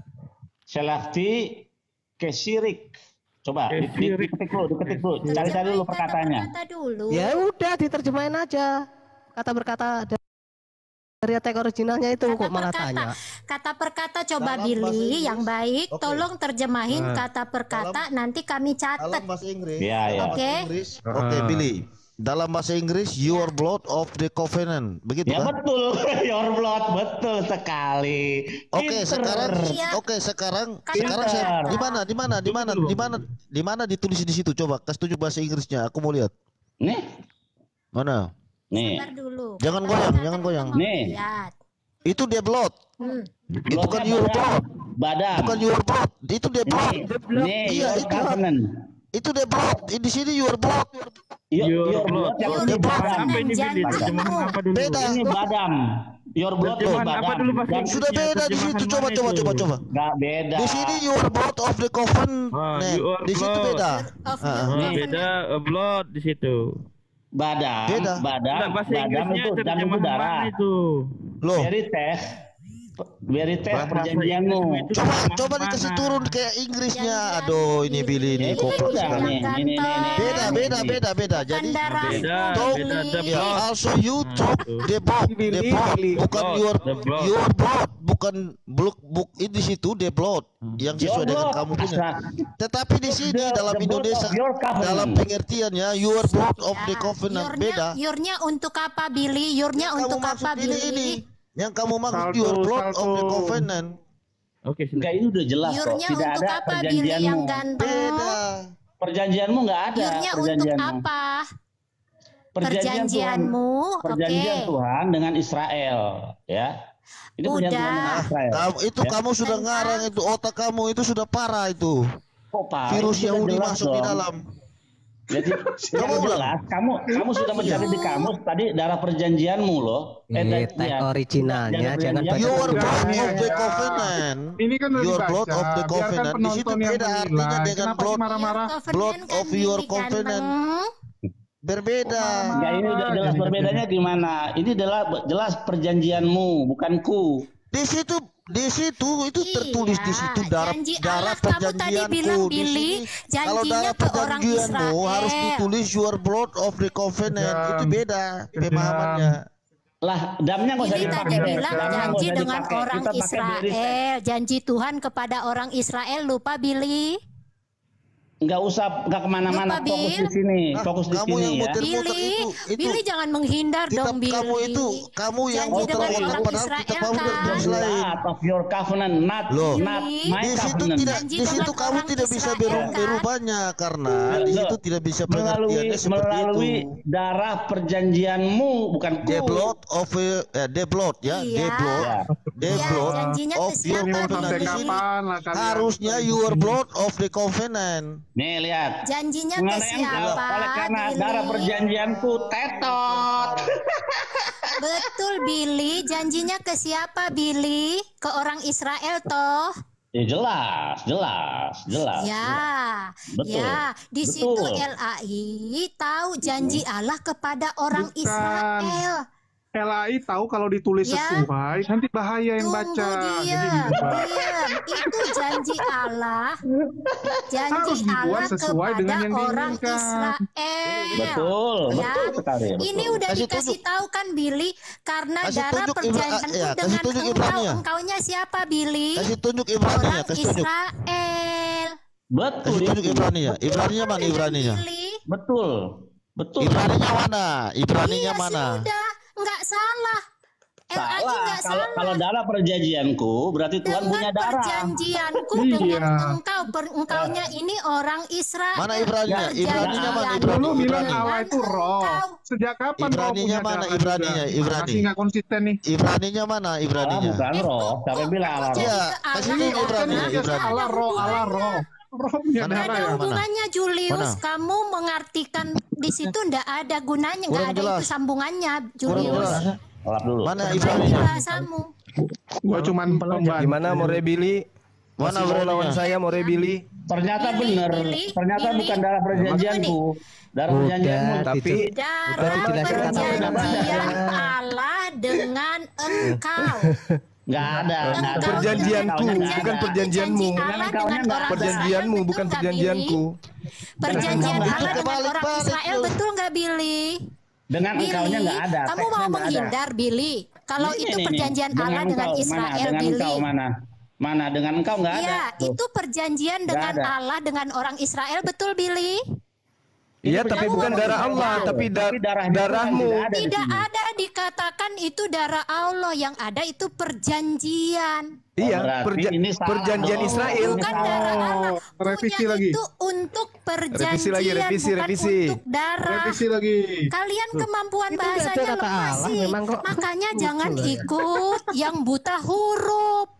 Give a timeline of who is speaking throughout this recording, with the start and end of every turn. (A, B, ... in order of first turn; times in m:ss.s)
0:00.7-0:01.6 A
0:02.2-0:06.5 A
0:03.7-0:05.5 B
0:05.3-0:07.4 C
0:07.1-0:08.8 D
0:09.3-0:10.2 D
0:11.2-0:13.1 D
0:12.2-0:19.2 C
0:14.4-0:16.2 E
0:16.9-0:17.2 F
0:17.7-0:18.0 E
0:19.0-0:25.5 E
0:19.8-0:20.4 A
0:20.3-0:20.6 C
0:21.1-0:21.6 F
0:25.3-0:29.8 A
0:28.7-0:36.3 E
0:29.5-0:30.0 C
0:30.8-0:32.0 C
0:31.0-0:31.8 A
0:32.4-0:33.2 B
0:37.9-0:38.3 E
0:38.7-0:39.0 A
0:38.7-0:41.5 C
0:39.6-0:40.8 E
0:40.7-0:41.1 A
0:42.0-0:42.8 E
0:43.0-0:43.3 C
0:43.7-0:44.6 E
0:43.7-0:45.7 A
0:45.3-0:47.1 E
0:46.7-0:48.6 A
0:47.2-0:48.2 D
0:47.6-0:48.4 E
0:49.1-0:51.1 E
0:51.5-0:54.2 A
0:51.6-0:55.3 B
0:52.4-0:54.5 C
0:52.6-0:53.2 E
0:54.7-0:55.2 E
0:55.0-0:55.8 A
0:56.4-0:58.0 A
0:56.6-0:59.7 B
0:56.8-0:57.1 E
0:57.7-0:59.8 E
0:59.9-1:01.0 A
1:00.5-1:04.8 E
1:02.5-1:03.8 B
1:03.9-1:05.3 C
1:04.6-1:06.7 B
1:04.7-1:05.0 A
1:07.4-1:10.5 A
1:07.9-1:08.2 E
1:08.4-1:11.0 B
1:11.4-1:11.7 E
1:11.5-1:12.2 A
1:13.2-1:16.3 A
1:13.7-1:15.3 B
1:14.9-1:19.4 E
1:16.9-1:20.8 C
1:18.4-1:21.0 A
1:20.2-1:21.8 E
1:21.3-1:23.6 C
1:21.8-1:23.7 B
1:22.0-1:22.4 A
1:22.5-1:32.0 E
1:24.2-1:24.9 B
1:25.3-1:26.3 F
1:26.2-1:27.4 B
1:31.0-1:32.2 A
1:32.6-1:38.0 E
1:33.1-1:35.2 A
1:36.2-1:41.1 C
1:39.7-1:44.0 E
1:42.1-1:43.6 G
1:44.6-1:45.2 B
1:45.0-1:47.6 A
1:45.6-1:48.4 C
1:47.8-1:48.6 E
1:49.0-1:51.0 A
1:49.9-1:51.4 C
1:52.6-1:53.5 A
1:52.6-1:54.7 C
1:54.0-1:56.7 A
1:57.4-1:59.1 A
1:57.4-1:58.2 C
1:58.0-2:02.0 E
1:59.4-2:00.2 C
2:02.5-2:04.2 A
2:02.9-2:04.4 E
2:05.3-2:13.5 A
2:05.9-2:06.6 E
2:07.1-2:07.5 G
2:07.5-2:07.8 E
2:07.7-2:08.3 C
2:10.3-2:13.3 D
2:12.3-2:18.4 E
2:12.7-2:18.7 G
2:18.3-2:20.9 C
2:18.9-2:20.5 E
2:21.6-2:22.5 E
2:22.5-2:23.8 G
2:22.5-2:27.4 A
2:27.7-2:39.4 E
2:29.4-2:35.6 C
2:37.3-2:38.0 G
2:38.5-2:39.3 G
2:40.0-2:43.9 A
2:40.8-2:47.1 C
2:40.9-2:42.2 G
2:48.4-2:51.8 A
2:49.5-2:50.3 C
2:50.7-2:53.0 E
2:51.8-2:57.7 C
2:53.9-2:58.2 E
2:55.7-2:56.4 A
2:57.2-3:01.7 A
2:59.5-2:59.8 E
2:59.7-3:00.4 C
3:00.4-3:07.0 E
3:01.0-3:03.2 C
3:02.7-3:03.0 A
3:04.3-3:09.7 A
3:09.2-3:15.0 E
3:11.3-3:12.1 C
3:12.0-3:12.2 A
3:12.6-3:15.0 C
3:12.7-3:13.4 G
3:13.9-3:16.8 G
3:15.5-3:18.2 E
3:18.4-3:18.9 A
3:19.0-3:21.8 C
3:19.6-3:24.5 A
3:20.1-3:20.4 E
3:21.7-3:23.8 E
3:24.8-3:29.7 C
3:30.1-3:32.6 A
3:32.2-3:39.2 C
3:33.4-3:34.8 A
3:36.5-3:36.8 A
3:37.9-3:39.0 G
3:39.7-3:44.3 G
3:41.0-3:41.5 C
3:42.6-3:46.5 C
3:43.9-3:44.2 A
3:46.9-3:47.4 A
3:47.5-3:59.3 C
3:47.7-3:50.3 G
3:50.8-3:52.4 E
3:51.1-3:53.2 A
3:53.3-3:53.8 E
3:55.4-3:57.8 E
3:59.2-4:00.7 E
3:59.8-4:01.9 C
4:02.3-4:03.7 A
4:02.6-4:04.8 E
4:03.7-4:05.2 C
4:05.3-4:05.7 A
4:06.4-4:06.9 A
4:06.6-4:08.8 E
4:08.0-4:10.2 C
4:10.9-4:12.2 C
4:10.9-4:15.3 A
4:13.8-4:22.4 C
4:15.6-4:16.4 G
4:18.8-4:21.2 E
4:19.3-4:20.8 A
4:20.4-4:25.8 G
4:23.0-4:25.1 E
4:25.9-4:27.4 E
4:27.0-4:29.0 A
4:27.5-4:31.8 C
4:28.7-4:31.4 E
4:29.7-4:33.2 G
4:32.6-4:33.4 E
4:32.7-4:39.6 C
4:34.1-4:34.4 E
4:37.5-4:38.1 E
4:39.0-4:39.7 E
4:39.1-4:41.2 A
4:40.4-4:41.3 E
4:40.6-4:41.9 C
4:42.6-4:44.2 G
4:42.7-4:44.6 F
4:45.2-4:46.0 E
4:45.2-4:46.8 F
4:45.8-4:46.7 C
4:47.1-4:51.8 A
4:47.4-4:50.0 C
4:50.7-4:54.5 D
4:51.4-4:51.8 F
4:51.7-4:56.9 C
4:52.4-4:53.8 F
4:53.1-4:54.2 A
4:56.2-5:00.6 F
4:57.5-5:01.9 A
4:58.1-5:03.2 C
5:01.5-5:03.3 F
5:04.0-5:07.2 C
5:04.0-5:05.0 A
5:04.1-5:06.2 E
5:07.7-5:09.7 A
5:07.9-5:13.4 C
5:10.8-5:13.7 A
5:14.2-5:15.8 A
5:15.1-5:19.2 C
5:16.7-5:17.1 A
5:20.2-5:23.2 F
5:20.2-5:23.8 A
5:20.6-5:21.7 C
5:23.3-5:28.3 C
5:28.6-5:30.9 F
5:28.6-5:31.5 A
5:30.1-5:36.4 C
5:30.8-5:32.8 G
5:33.9-5:35.6 F
5:36.1-5:37.1 G
5:37.1-5:43.3 C
5:37.6-5:41.2 D